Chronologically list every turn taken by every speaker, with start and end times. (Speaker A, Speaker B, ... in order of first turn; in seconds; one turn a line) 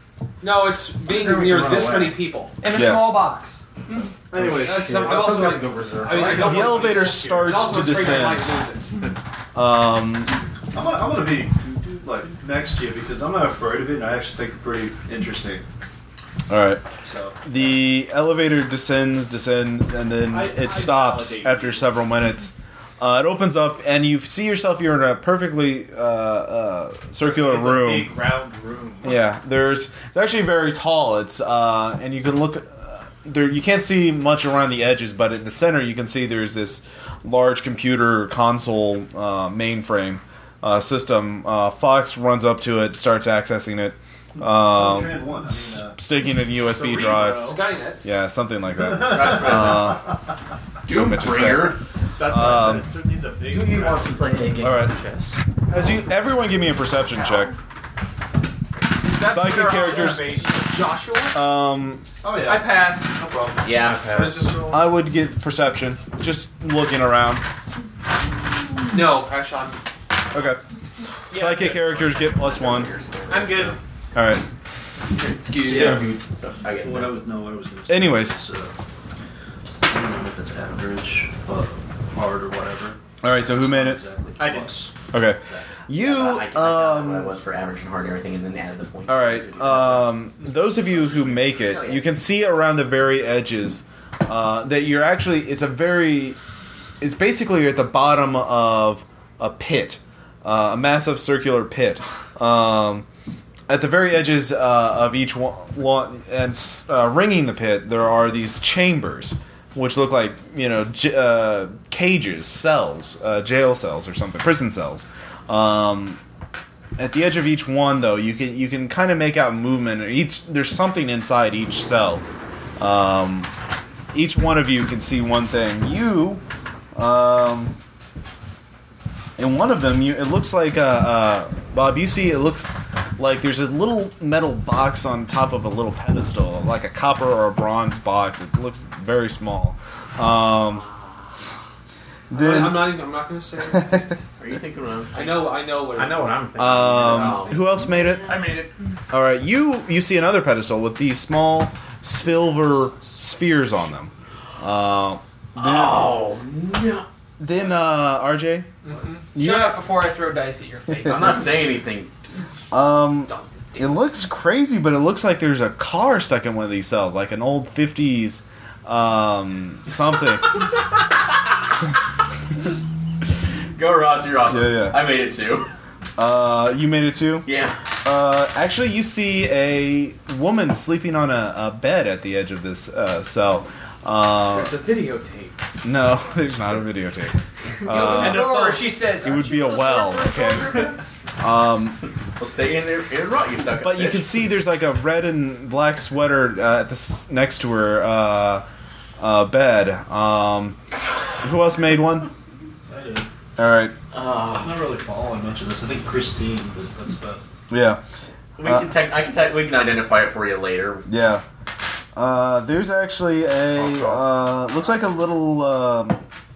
Speaker A: 0.4-2.5
Speaker B: 1.0-2.2
Speaker C: 2.6-4.1
Speaker D: 2.7-3.2
Speaker B: 4.3-6.7
Speaker E: 4.3-6.7
Speaker A: 4.6-9.1
Speaker D: 6.3-8.6
Speaker D: 9.5-10.4
Speaker E: 10.7-15.6
Speaker D: 16.5-16.8
Speaker E: 17.0-17.8
Speaker D: 17.4-28.1
Speaker F: 20.2-21.9
Speaker F: 27.2-29.2
Speaker D: 29.0-50.1
Speaker E: 44.4-46.0
Speaker F: 46.5-47.6
Speaker A: 47.4-48.0
Speaker E: 48.8-49.4
Speaker G: 49.0-50.1
Speaker G: 50.9-51.8
Speaker D: 50.9-52.9
Speaker F: 51.9-54.4
Speaker B: 53.5-55.4
Speaker D: 54.6-55.0
Speaker D: 55.7-57.6
Speaker A: 59.0-61.4
Speaker F: 59.1-60.8
Speaker D: 59.2-60.4
Speaker D: 61.3-62.0
Speaker E: 62.2-63.7
Speaker C: 62.4-63.1
Speaker G: 63.6-64.1
Speaker B: 63.7-64.7
Speaker A: 64.1-64.7
Speaker D: 64.7-67.5
Speaker A: 68.9-69.8
Speaker D: 70.3-70.6
Speaker D: 71.3-72.9
Speaker G: 71.3-73.8
Speaker F: 73.3-73.8
Speaker D: 74.2-74.4
Speaker A: 75.5-76.0
Speaker B: 75.5-76.3
Speaker G: 75.6-77.2
Speaker E: 76.8-78.7
Speaker D: 77.9-78.4
Speaker E: 79.8-84.9
Speaker D: 83.2-84.0
Speaker F: 84.4-84.8
Speaker D: 85.1-87.3
Speaker G: 85.9-92.2
Speaker D: 89.1-96.4
Speaker D: 97.0-103.1
Speaker D: 103.7-116.2
Speaker D: 117.0-122.3
Speaker D: 122.8-123.5
Speaker D: 124.1-126.4
Speaker D: 127.0-127.8
Speaker D: 129.4-140.8
Speaker G: 140.7-141.2
Speaker D: 142.3-143.0
Speaker A: 142.3-144.2
Speaker G: 144.4-145.5
Speaker A: 145.1-146.4
Speaker B: 145.9-147.5
Speaker D: 146.6-148.4
Speaker G: 147.0-148.2
Speaker C: 148.2-148.7
Speaker D: 149.1-156.2
Speaker G: 155.6-157.1
Speaker D: 157.4-158.7
Speaker A: 158.8-159.2
Speaker D: 159.3-159.8
Speaker C: 159.4-161.5
Speaker G: 161.0-162.1
Speaker D: 162.7-170.6
Speaker G: 173.8-175.7
Speaker D: 174.5-175.0
Speaker D: 176.2-177.5
Speaker G: 177.4-177.8
Speaker D: 178.0-184.8
Speaker F: 184.5-185.6
Speaker D: 185.8-188.6
Speaker C: 187.9-191.0
Speaker G: 188.2-188.6
Speaker D: 189.2-190.9
Speaker D: 191.4-192.0
Speaker G: 192.4-194.3
Speaker D: 193.8-198.7
Speaker D: 199.2-200.8
Speaker D: 201.4-202.3
Speaker E: 202.9-203.3
Speaker D: 203.6-203.9
Speaker G: 204.1-204.9
Speaker E: 204.5-207.4
Speaker D: 207.7-208.0
Speaker G: 208.6-211.1
Speaker D: 208.6-208.9
Speaker D: 211.1-211.4
Speaker D: 212.2-216.2
Speaker B: 213.8-214.1